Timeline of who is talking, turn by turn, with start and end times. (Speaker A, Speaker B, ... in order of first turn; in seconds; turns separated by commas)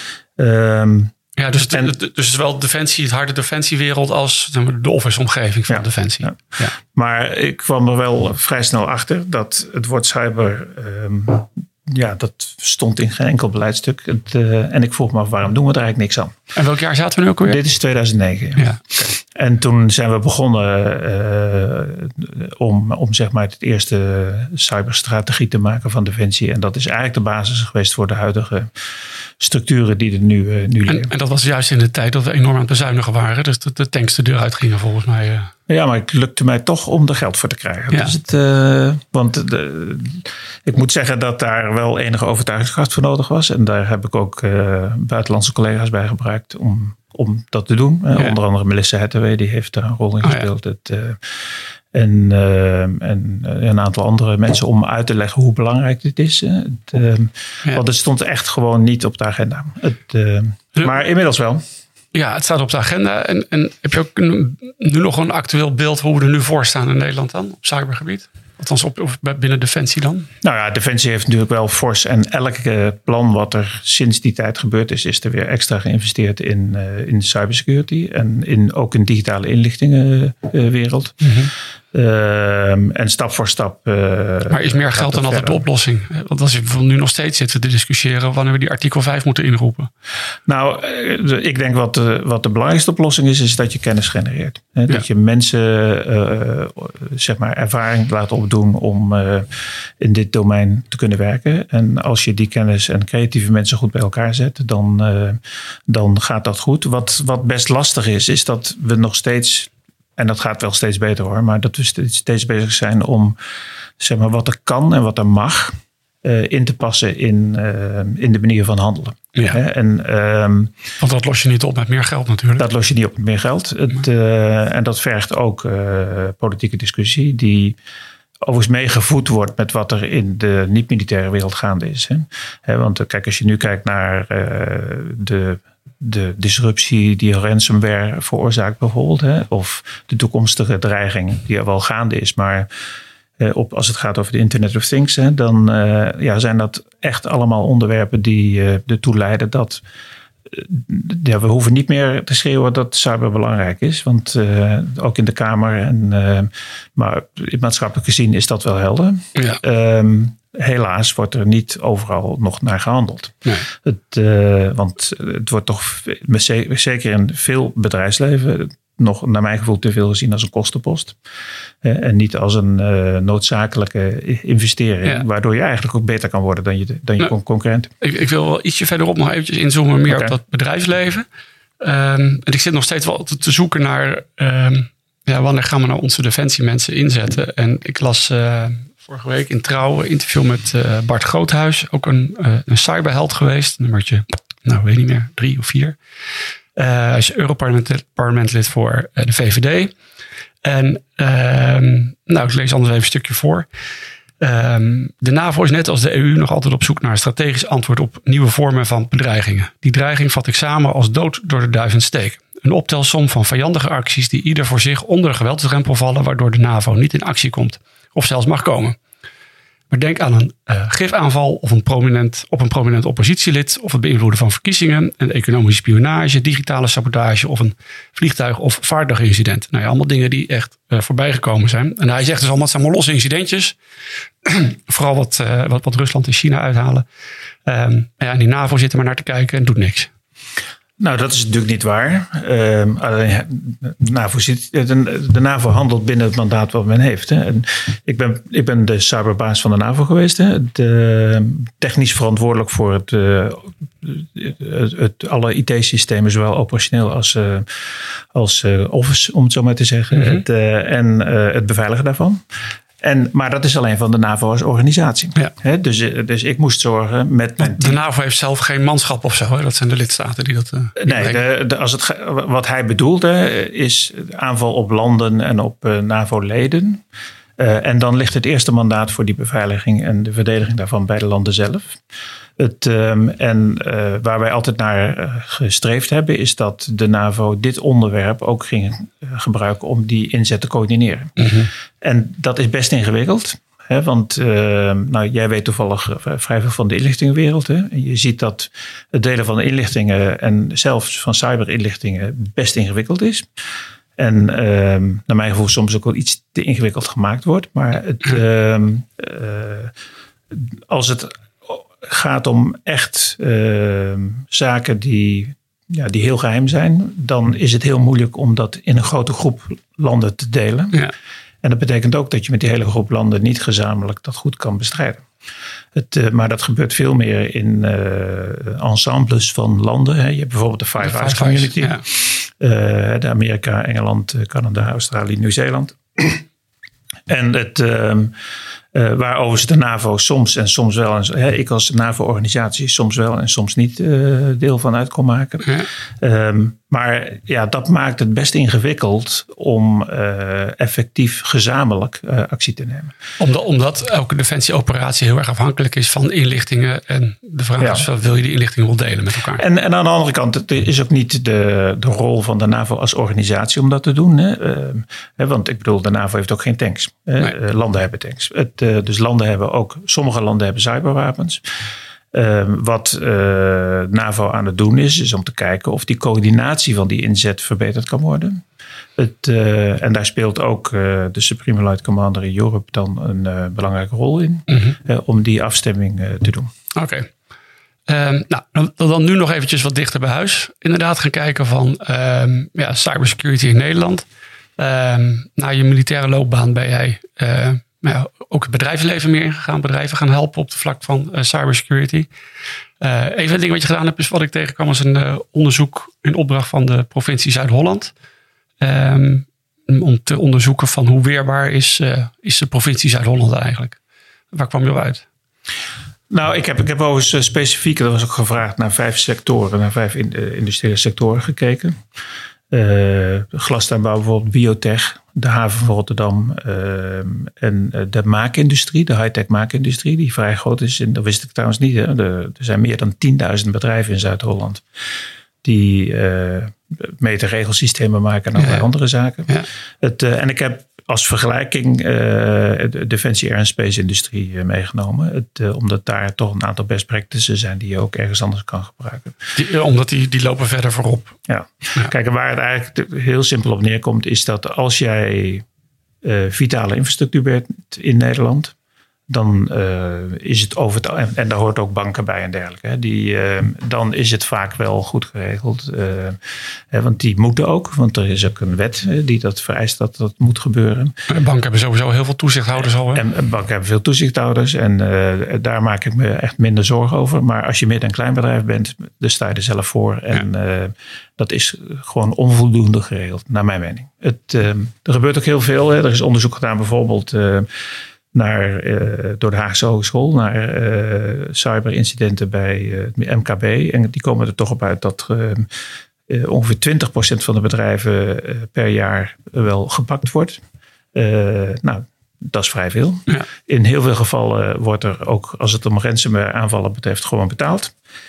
Speaker A: 0.4-1.9, Speaker B: 1.4-6.7, Speaker A: 5.7-16.4, Speaker B: 16.5-17.6, Speaker A: 17.4-28.7, Speaker A: 29.4-31.1, Speaker B: 30.9-35.5, Speaker A: 35.7-61.6, Speaker B: 62.1-70.3, Speaker A: 70.4-85.6, Speaker B: 81.2-81.5, Speaker B: 84.5-89.9, Speaker A: 90.5-113.3, Speaker A: 114.0-120.8, Speaker B: 121.0-122.6, Speaker A: 122.6-127.8, Speaker A: 128.4-142.7, Speaker A: 143.4-149.8, Speaker A: 150.5-171.2, Speaker A: 171.8-177.9, Speaker B: 178.0-181.2, Speaker A: 180.1-180.3, Speaker B: 181.8-196.0, Speaker B: 196.8-199.9, Speaker B: 200.6-203.7, Speaker B: 204.4-219.0, Speaker B: 219.9-233.8, Speaker B: 234.4-237.1, Speaker B: 237.7-240.1, Speaker A: 241.0-262.4, Speaker B: 260.1-260.4, Speaker A: 263.0-268.0, Speaker B: 267.6-271.4, Speaker A: 271.0-277.0, Speaker A: 277.6-282.0, Speaker A: 282.6-303.5, Speaker B: 291.4-291.7, Speaker A: 304.2-309.9, Speaker A: 310.5-321.1, Speaker A: 321.6-325.3, Speaker A: 325.9-336.4, Speaker B: 331.0-332.0, Speaker A: 337.3-338.4, Speaker A: 338.9-353.1, Speaker B: 345.6-345.9, Speaker B: 353.4-359.6, Speaker A: 357.8-358.1, Speaker A: 359.6-371.6, Speaker A: 372.3-378.6, Speaker A: 379.2-386.7, Speaker B: 384.7-384.9, Speaker B: 386.9-387.3, Speaker B: 388.1-402.3, Speaker B: 403.0-408.1, Speaker B: 408.8-414.0, Speaker B: 414.5-415.2, Speaker A: 416.3-422.0, Speaker A: 422.7-434.8, Speaker A: 435.6-449.5, Speaker B: 438.6-438.9, Speaker B: 449.5-451.3, Speaker A: 451.5-455.6, Speaker A: 456.2-458.7, Speaker A: 459.3-471.1, Speaker B: 471.3-473.2, Speaker A: 473.1-487.7, Speaker A: 488.3-495.7, Speaker A: 496.3-500.6, Speaker A: 501.1-507.9